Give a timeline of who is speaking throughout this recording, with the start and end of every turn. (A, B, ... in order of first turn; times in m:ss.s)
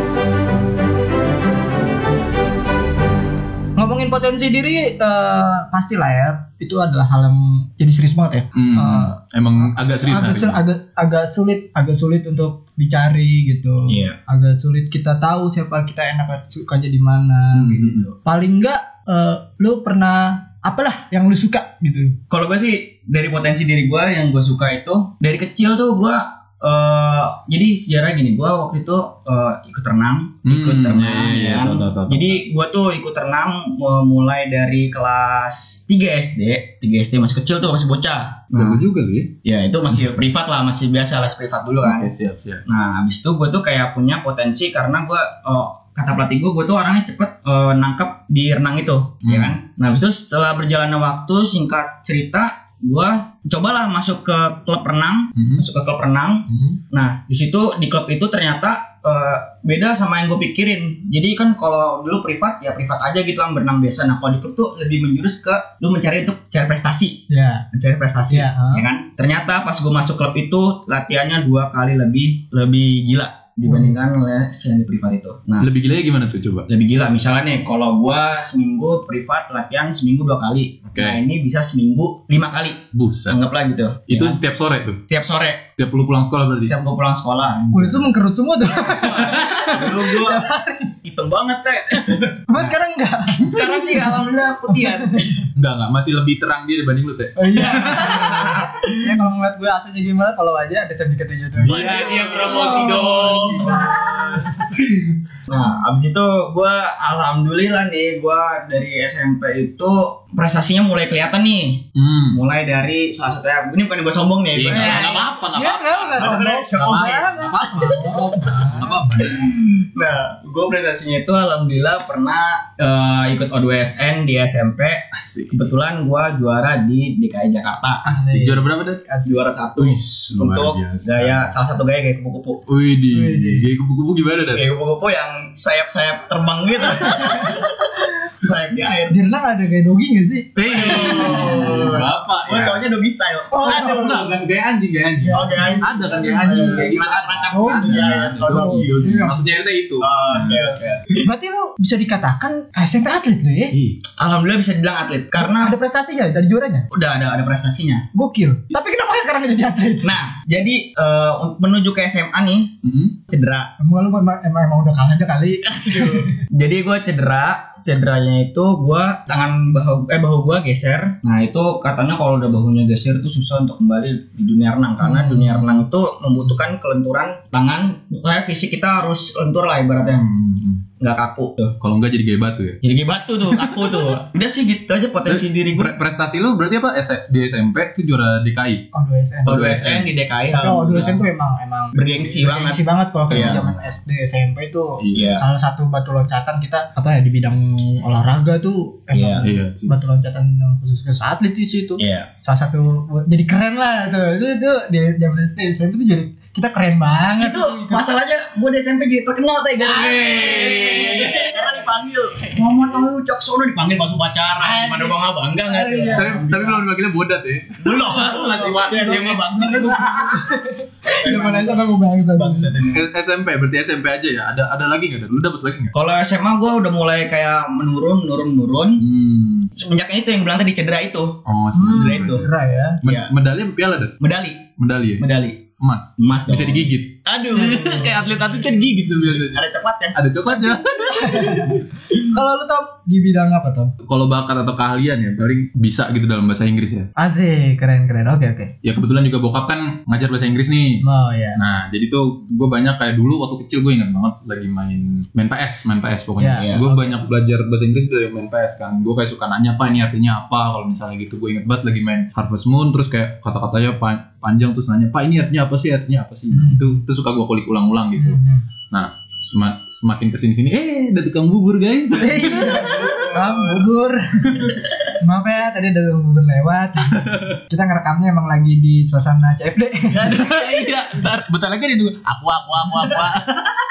0:03.8-0:22.2 A
0:08.5-0:10.6 B
0:13.9-0:14.2 C
0:17.5-0:18.1 B
0:22.3-0:38.8 C
0:30.4-0:32.4 B
0:38.5-0:39.3 B
0:39.4-0:42.1 C
0:41.8-0:42.6 B
0:42.7-1:15.7 C
0:49.2-0:49.6 B
0:55.4-0:55.6 B
0:56.5-0:56.8 B
1:07.3-1:07.6 A
1:08.3-1:08.8 A
1:13.6-1:14.0 A
1:15.6-1:16.7 B
1:16.7-1:24.4 C
1:20.9-1:21.2 B
1:22.9-1:23.4 B
1:24.1-1:25.0 B
1:25.1-1:25.7 C
1:25.8-1:26.8 B
1:26.6-1:27.7 C
1:27.5-1:28.1 B
1:27.7-1:31.0 A
1:28.6-1:29.9 B
1:29.2-1:30.5 C
1:31.1-1:31.8 C
1:31.2-1:32.8 B
1:32.5-1:33.9 A
1:33.4-1:35.4 C
1:34.7-1:35.4 A
1:35.6-1:38.6 B
1:37.4-1:44.7 A
1:38.4-1:39.0 C
1:41.6-1:45.2 B
1:41.7-1:44.3 C
1:45.5-1:55.3 C
1:52.0-1:52.4 B
1:54.5-1:59.6 B
1:54.7-1:58.9 A
1:56.2-1:58.3 C
1:59.2-2:08.0 C
2:05.1-2:05.7 B
2:08.0-2:09.4 A
2:08.1-2:09.0 B
2:09.2-2:12.6 C
2:09.8-2:11.5 B
2:12.7-2:14.7 B
2:13.1-2:13.7 A
2:14.5-2:19.2 C
2:16.9-2:17.6 A
2:19.1-2:22.0 A
2:20.6-2:22.8 B
2:20.7-2:24.2 C
2:23.5-2:24.3 A
2:23.7-2:30.8 B
2:25.2-2:26.9 A
2:25.3-2:28.9 C
2:27.5-2:29.5 A
2:30.0-2:31.2 C
2:30.5-2:33.8 A
2:33.7-2:34.0 B
2:34.2-2:35.7 C
2:35.4-2:36.9 A
2:36.9-2:38.0 C
2:38.1-2:40.2 A
2:40.0-2:42.8 C
2:42.8-2:43.2 B
2:43.3-2:43.7 C
2:43.8-2:46.4 A
2:45.7-3:00.2 C
2:55.0-2:55.7 A
3:00.0-3:00.8 B
3:01.0-3:01.8 C
3:01.8-3:02.8 B
3:02.8-3:05.9 C
3:03.5-3:04.1 B
3:05.2-3:08.8 B
3:08.9-3:09.8 A
3:09.5-3:11.2 C
3:09.5-3:10.1 B
3:10.5-3:28.1 A
3:12.0-3:12.8 C
3:13.3-3:13.9 B
3:13.3-3:13.6 C
3:15.0-3:15.4 B
3:15.1-3:15.4 C
3:19.1-3:19.4 C
3:19.4-3:20.0 B
3:22.0-3:22.3 C
3:27.4-3:36.6 C
3:29.8-3:31.6 B
3:34.6-3:35.1 A
3:35.7-3:36.8 A
3:36.1-3:39.9 B
3:37.8-3:40.5 C
3:38.9-3:42.7 A
3:41.0-3:43.0 C
3:42.9-3:45.9 B
3:45.9-3:49.0 C
3:49.0-3:49.7 B
3:49.8-3:52.4 C
3:51.5-3:52.5 B
3:51.7-3:53.0 A
3:53.0-3:53.3 C
3:53.0-3:54.2 B
3:54.2-3:55.6 C
3:54.8-3:55.2 B
3:55.8-4:01.8 B
3:56.2-3:58.3 C
3:59.4-4:00.2 C
4:00.6-4:03.9 A
4:04.0-4:07.1 B
4:07.2-4:08.7 A
4:08.8-4:11.0 B
4:11.0-4:11.6 A
4:11.6-4:33.3 B
4:16.4-4:17.2 A
4:26.5-4:27.0 A
4:28.2-4:28.6 A
4:32.1-4:40.5 A
4:32.6-4:33.8 C
4:37.1-4:37.6 B
4:40.2-4:40.7 C
4:40.2-4:43.6 B